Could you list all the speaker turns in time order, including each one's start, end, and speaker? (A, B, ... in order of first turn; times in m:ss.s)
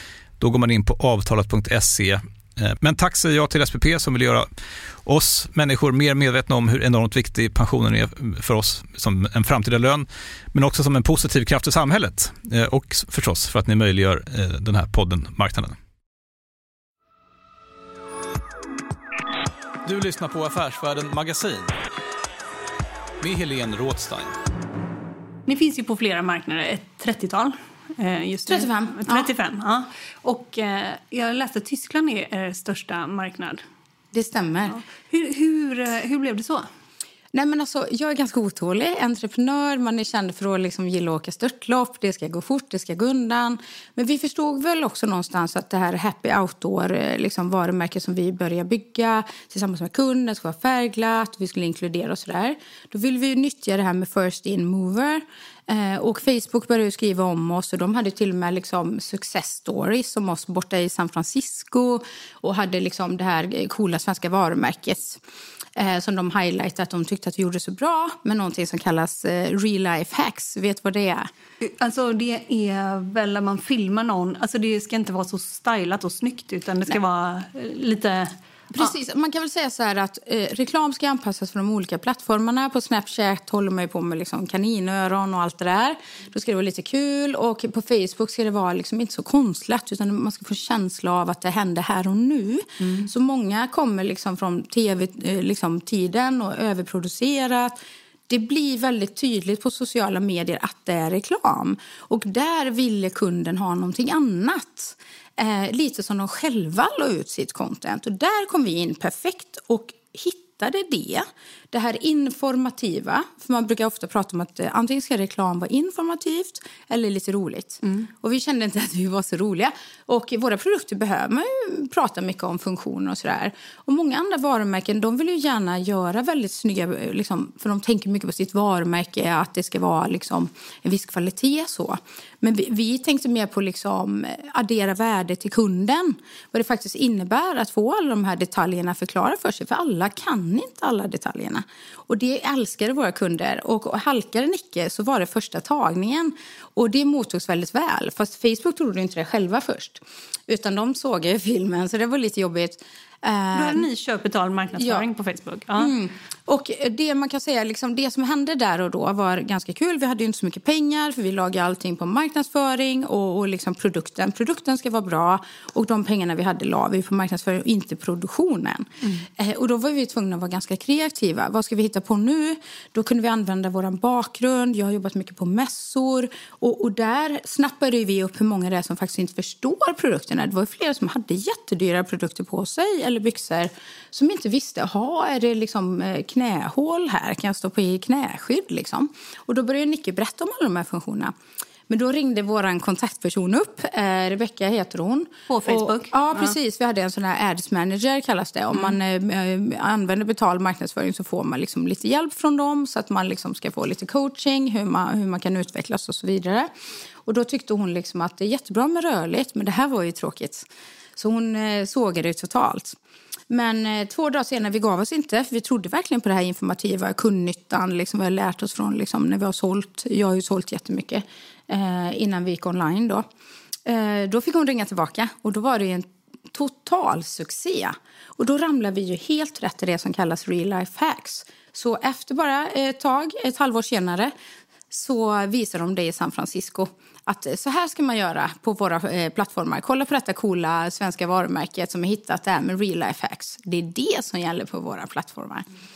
0:00.4-0:04.5 A
0:05.0-0:15.8 A
0:19.8-0:21.8 A
0:23.2-0:24.4 A
0:25.5-0:33.6 B
0:28.5-0:29.3 C
0:34.1-0:34.8 C
0:34.7-0:36.7 B
0:37.3-1:05.2 C
1:05.8-1:11.3 C
1:11.6-1:18.9 B
1:18.7-1:37.8 C
1:32.8-1:33.1 B
1:38.3-2:33.8 C
2:33.5-2:35.9 B
2:34.8-2:35.0 C
2:35.8-3:11.3 C
3:11.9-3:26.7 C
3:15.5-3:16.5 B
3:27.2-3:33.0 C
3:33.5-3:43.2 C
3:43.8-3:54.3 C
3:54.9-4:05.6 C